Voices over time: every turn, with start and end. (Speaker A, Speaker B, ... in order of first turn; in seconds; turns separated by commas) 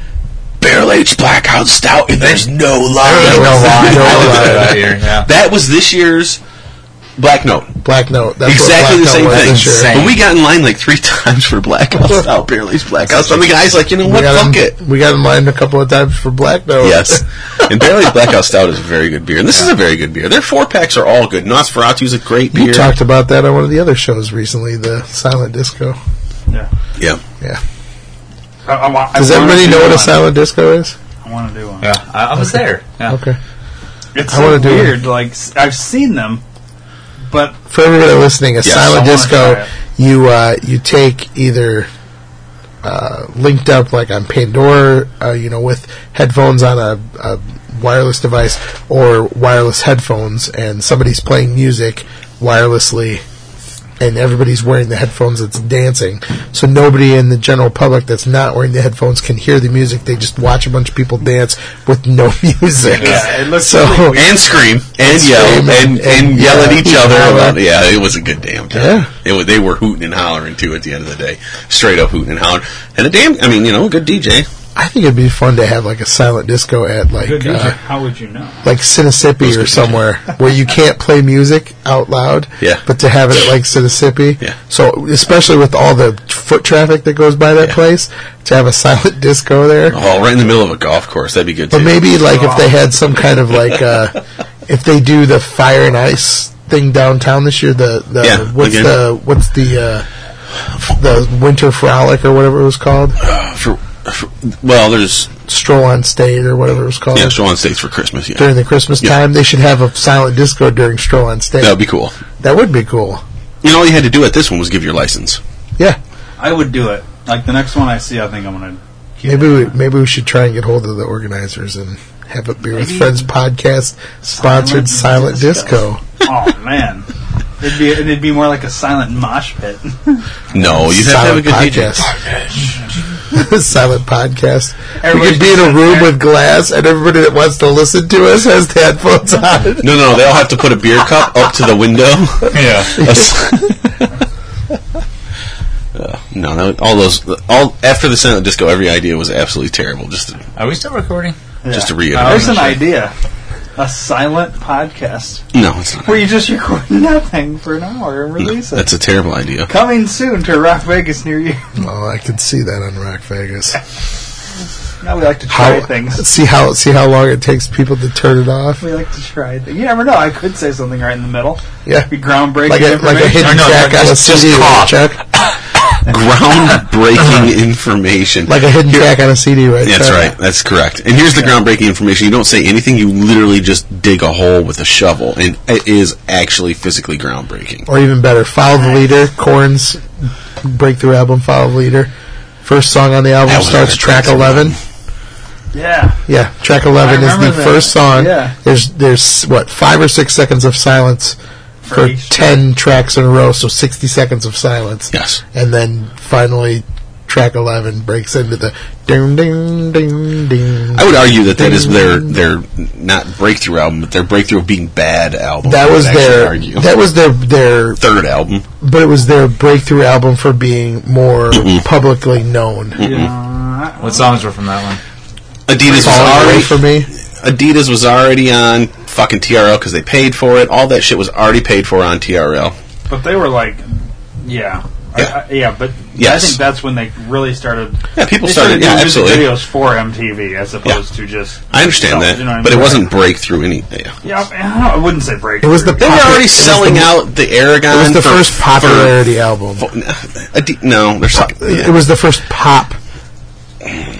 Speaker A: 0.6-6.4, Speaker B: 3.0-5.3, Speaker C: 3.1-4.8, Speaker A: 7.2-7.7, Speaker C: 7.8-10.0, Speaker A: 8.4-14.7, Speaker B: 9.3-10.2, Speaker C: 13.1-13.4, Speaker C: 14.0-17.2, Speaker A: 16.8-22.9, Speaker C: 22.5-26.0, Speaker D: 28.6-30.2, Speaker C: 29.1-30.9, Speaker D: 31.2-31.9, Speaker B: 31.8-33.2, Speaker C: 32.4-33.4, Speaker D: 34.1-36.4, Speaker C: 34.3-35.0, Speaker D: 37.3-37.6, Speaker C: 37.7-41.9, Speaker D: 38.6-39.7, Speaker C: 42.8-53.2, Speaker C: 54.0-64.3, Speaker D: 62.8-64.7, Speaker A: 64.1-74.5, Speaker C: 65.0-67.6, Speaker C: 68.7-69.1, Speaker C: 74.8-77.8, Speaker D: 77.2-78.7, Speaker C: 78.6-90.0, Speaker A: 79.4-80.0, Speaker A: 89.9-92.1, Speaker C: 91.7-100.0, Speaker D: 92.2-92.9, Speaker A: 98.2-99.0, Speaker C: 100.8-103.2, Speaker A: 103.2-105.3, Speaker C: 105.5-107.4, Speaker A: 107.1-109.2, Speaker C: 108.4-111.8, Speaker A: 111.6-112.1, Speaker C: 112.4-113.2, Speaker A: 113.6-115.4, Speaker D: 116.4-119.8, Speaker C: 119.3-126.0, Speaker D: 122.7-123.3, Speaker D: 124.3-127.1, Speaker D: 127.6-130.3, Speaker A: 130.5-132.1, Speaker C: 130.6-132.1, Speaker C: 133.3-139.9, Speaker D: 135.0-136.2, Speaker A: 139.8-143.7, Speaker B: 142.5-143.2, Speaker A: 145.9-150.4, Speaker B: 150.6-151.3, Speaker D: 151.6-153.1, Speaker A: 151.7-152.8, Speaker D: 153.8-155.4, Speaker A: 155.5-156.3, Speaker D: 156.0-158.9, Speaker A: 158.4-159.7, Speaker D: 159.7-161.7, Speaker C: 161.8-163.8, Speaker D: 165.0-166.2, Speaker C: 165.5-168.8, Speaker D: 168.8-174.1, Speaker C: 171.8-175.2, Speaker B: 173.4-175.1, Speaker A: 176.1-179.1, Speaker C: 178.5-180.3, Speaker A: 179.8-187.9, Speaker C: 187.9-190.0, Speaker D: 188.7-189.1, Speaker C: 190.6-192.1, Speaker C: 192.6-194.8, Speaker A: 193.4-194.8, Speaker D: 195.7-196.2, Speaker C: 196.3-201.3, Speaker D: 197.0-198.6, Speaker D: 201.8-202.4, Speaker C: 201.9-212.3, Speaker A: 205.1-205.4, Speaker A: 210.9-216.9, Speaker C: 215.6-218.0, Speaker A: 218.0-218.6, Speaker C: 218.8-223.0, Speaker A: 221.5-221.8, Speaker A: 223.0-223.3, Speaker D: 223.0-224.4, Speaker B: 224.0-225.0, Speaker A: 225.7-232.8, Speaker C: 225.8-227.1, Speaker D: 233.1-243.1, Speaker A: 236.1-236.6, Speaker A: 238.1-239.6, Speaker A: 241.7-244.2, Speaker D: 244.2-246.4, Speaker C: 245.6-247.2, Speaker A: 246.0-249.2, Speaker C: 247.9-249.8, Speaker A: 249.8-252.0, Speaker C: 251.5-253.0